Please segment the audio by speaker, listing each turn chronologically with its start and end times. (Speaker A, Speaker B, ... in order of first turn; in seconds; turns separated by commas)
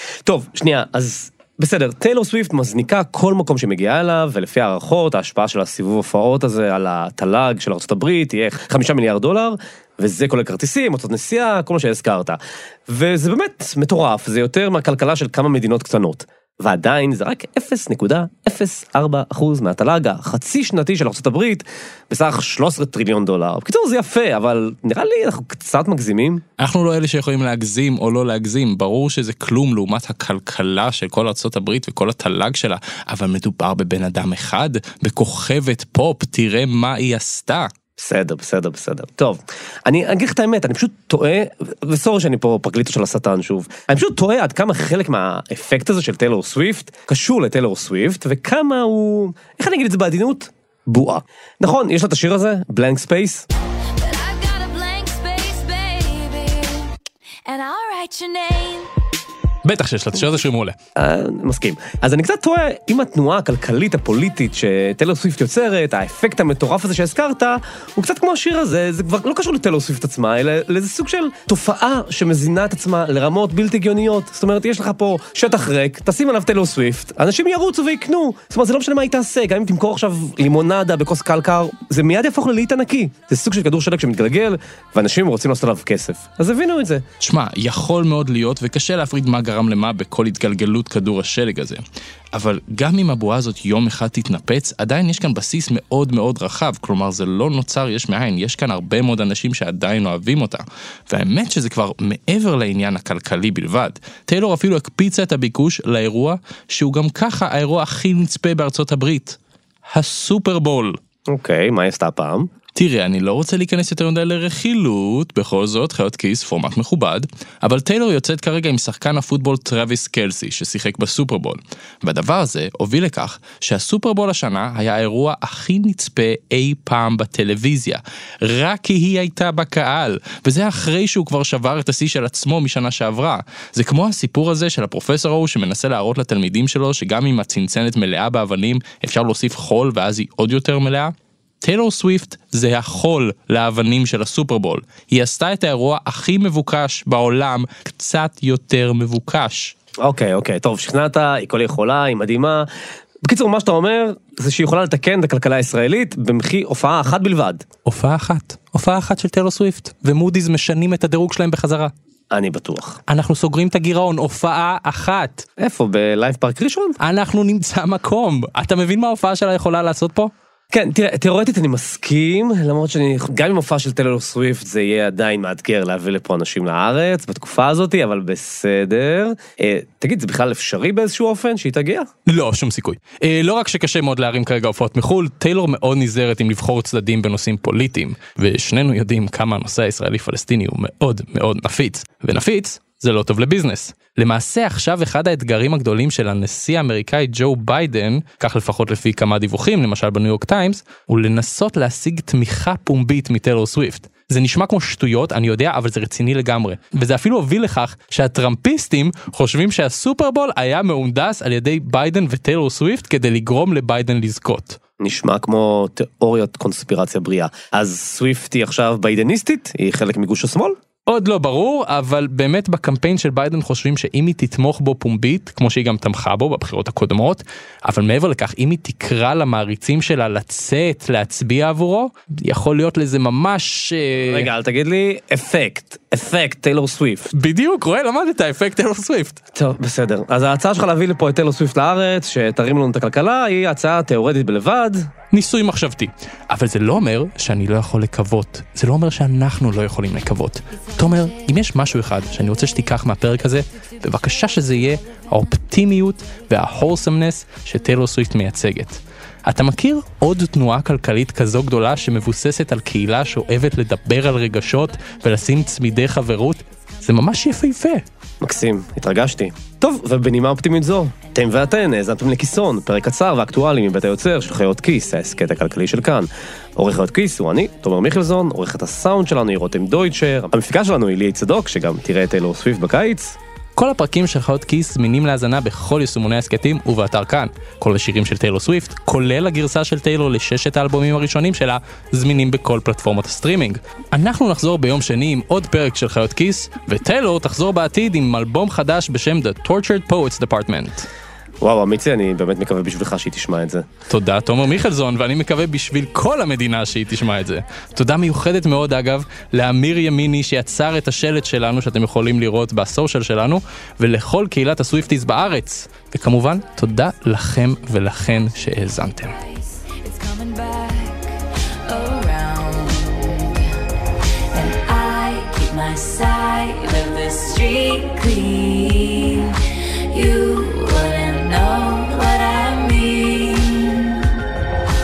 Speaker A: 0.2-26.4, Speaker B: 26.6-37.7, Speaker A: 38.0-53.5, Speaker C: 54.0-56.9, Speaker C: 57.5-58.9, Speaker B: 59.6-60.8, Speaker A: 61.0-87.0, Speaker B: 87.2-91.8, Speaker B: 92.3-111.0, Speaker A: 111.3-112.5, Speaker B: 112.8-149.8, Speaker A: 150.0-152.7, Speaker A: 153.2-157.6, Speaker B: 157.8-161.9, Speaker A: 162.3-163.0, Speaker B: 163.1-165.5, Speaker A: 165.6-167.0, Speaker B: 167.0-170.3, Speaker A: 170.7-182.1, Speaker B: 182.3-214.8, Speaker A: 215.0-220.8, Speaker B: 221.1-234.5, Speaker A: 234.3-237.3, Speaker B: 237.3-239.4, Speaker A: 239.6-245.1, Speaker B: 245.3-268.0, Speaker A: 268.4-283.4, Speaker B: 283.8-301.1, Speaker A: 301.6-303.9, Speaker B: 304.1-319.4, Speaker C: 319.8-323.8, Speaker C: 324.5-334.4